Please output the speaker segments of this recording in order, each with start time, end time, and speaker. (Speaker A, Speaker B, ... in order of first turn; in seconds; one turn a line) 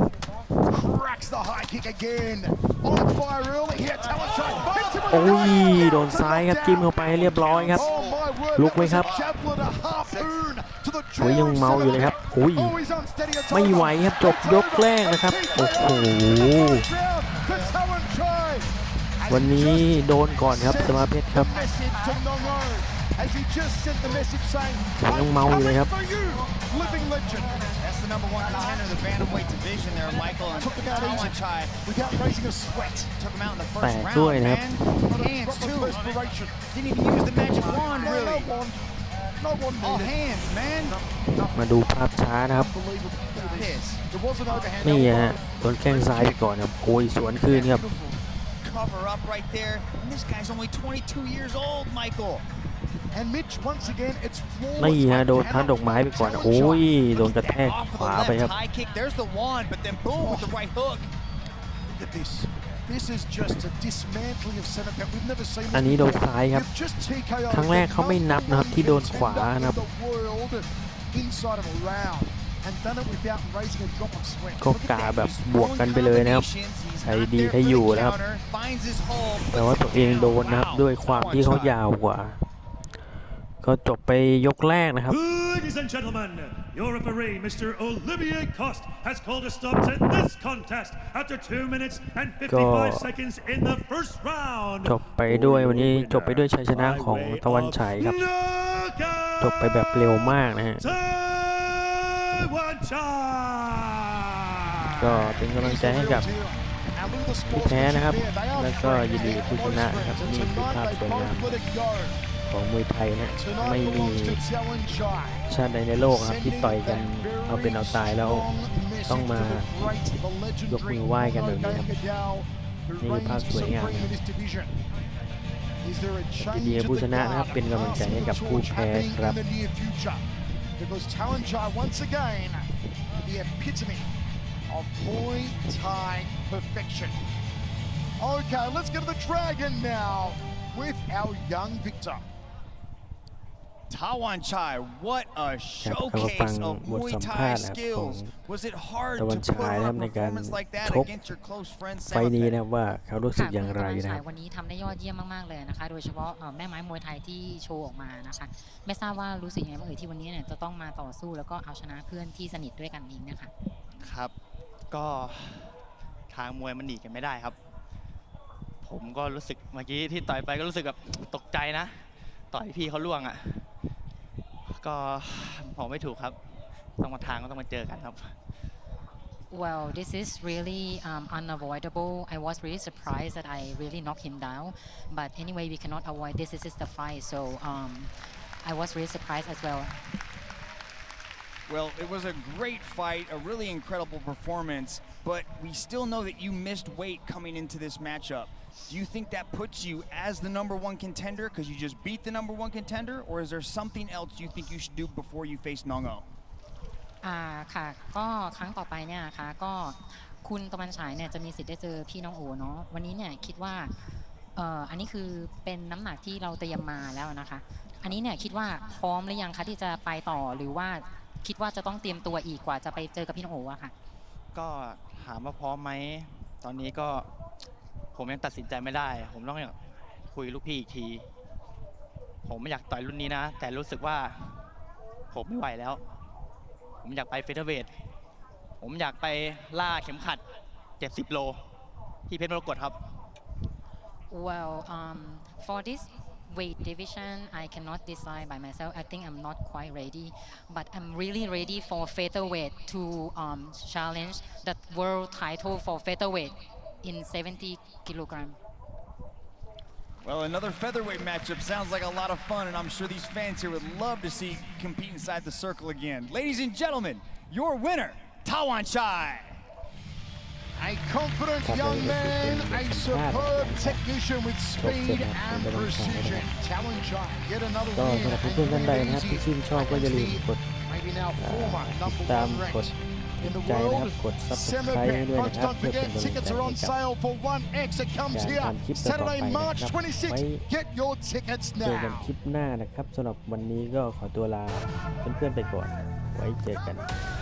Speaker A: 0.7-27.7
Speaker B: 5.1-8.0
Speaker B: 8.6-9.1
Speaker B: 11.2-12.8
Speaker B: 13.5-16.9
Speaker B: 19.3-21.6
Speaker B: 25.0-25.9
Speaker C: 27.8-32.3
Speaker A: 30.6-33.1
Speaker C: 32.9-36.0
Speaker B: 33.8-34.6
Speaker A: 34.9-36.6
Speaker C: 36.6-38.5
Speaker A: 37.4-38.8
Speaker A: 39.4-40.2
Speaker C: 39.8-41.0
Speaker A: 40.9-41.7
Speaker B: 41.5-42.7
Speaker A: 42.5-46.4
Speaker C: 43.4-44.0
Speaker B: 44.8-47.9
Speaker A: 47.1-47.4
Speaker C: 47.5-52.5
Speaker A: 53.1-58.1
Speaker B: 54.8-58.5
Speaker C: 58.0-61.1
Speaker A: 60.2-60.6
Speaker A: 61.9-74.9
Speaker B: 65.7-66.7
Speaker B: 67.5-69.8
Speaker B: 74.6-76.5
Speaker C: 74.8-81.8
Speaker B: 77.0-78.2
Speaker B: 79.4-82.4
Speaker B: 83.6-85.2
Speaker D: 85.1-100.2
Speaker B: 92.5-93.1
Speaker B: 94.8-98.2
Speaker B: 99.4-100.9
Speaker D: 100.8-105.4
Speaker B: 105.0-106.3
Speaker A: 105.6-112.2
Speaker B: 107.5-111.6
Speaker B: 112.5-114.4
Speaker A: 113.3-115.4
Speaker B: 115.5-118.5
Speaker A: 116.1-124.8
Speaker B: 119.1-119.7
Speaker B: 120.7-122.0
Speaker B: 123.0-124.2
Speaker A: 125.8-130.2
Speaker B: 126.4-129.4
Speaker A: 130.8-132.7
Speaker A: 133.2-134.1
Speaker A: 134.7-137.2
Speaker A: 138.2-142.2
Speaker C: 143.9-152.6
Speaker B: 145.8-148.3
Speaker B: 149.2-151.2
Speaker B: 152.1-154.2
Speaker E: 153.3-163.5
Speaker F: 164.0-164.3
Speaker F: 164.9-165.7
Speaker F: 166.3-167.6
Speaker F: 168.8-173.7
Speaker F: 174.8-176.4
Speaker F: 177.0-178.3
Speaker E: 179.5-188.1
Speaker E: 188.6-189.9
Speaker C: 191.7-206.3
Speaker E: 207.2-213.9
Speaker E: 214.6-223.9
Speaker F: 224.5-227.3
Speaker F: 228.2-229.8
Speaker F: 230.3-231.3
Speaker F: 232.5-234.7
Speaker F: 235.3-236.0
Speaker F: 237.0-237.9
Speaker F: 238.8-240.4
Speaker F: 241.0-241.6
Speaker F: 242.3-242.9
Speaker E: 244.3-258.6
Speaker C: 260.2-269.6
Speaker A: 270.8-282.9
Speaker B: 271.6-274.0
Speaker B: 274.8-276.5
Speaker B: 277.9-280.6
Speaker B: 281.4-287.0
Speaker A: 283.4-292.3
Speaker B: 288.3-290.7
Speaker B: 291.8-297.1